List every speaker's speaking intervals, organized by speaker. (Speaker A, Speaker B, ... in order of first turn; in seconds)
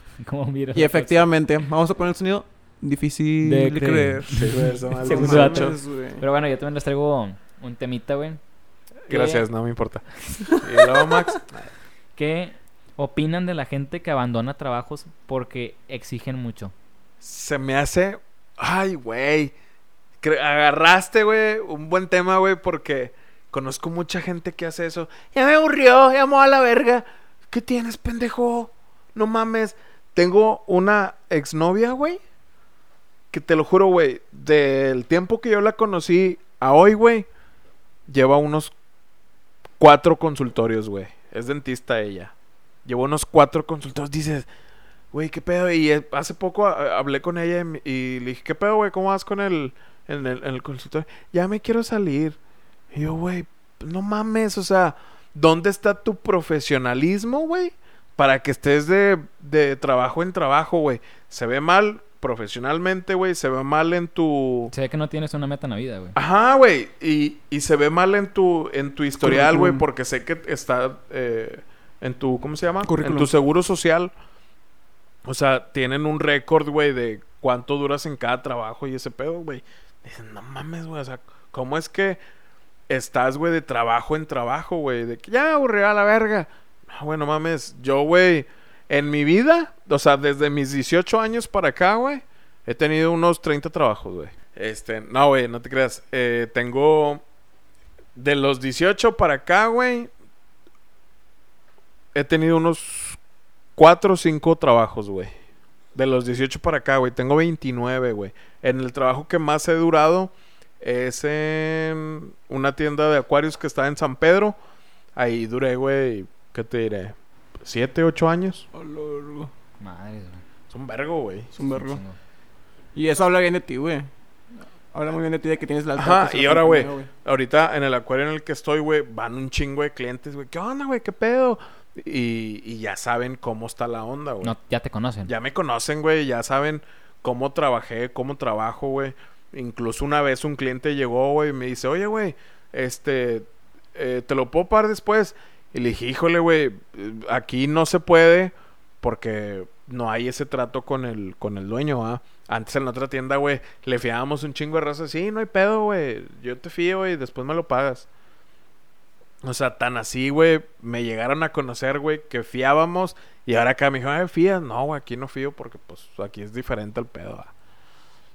Speaker A: 0.2-1.2, 3.4-8.4, 9.1-9.4, 12.2-16.7, 64.7-66.2, 119.8-120.4, 121.7-122.2, 134.4-135.3
Speaker B: 0.7-6.2, 69.2-69.8, 72.8-73.3, 118.7-119.5, 121.5-122.0, 122.9-124.1, 124.9-127.1
Speaker C: 4.3-5.8, 9.1-11.7, 17.2-19.5, 20.2-32.2, 33.3-37.3, 38.1-38.7, 39.8-42.3, 42.9-44.5, 45.1-52.4, 52.9-64.7, 66.2-74.1, 75.2-82.2, 82.9-97.2, 98.2-100.1, 102.1-103.2, 103.8-105.3, 105.9-114.6, 115.2-118.6, 120.7-121.5, 126.0-134.5, 135.2-158.1, 159.4-167.5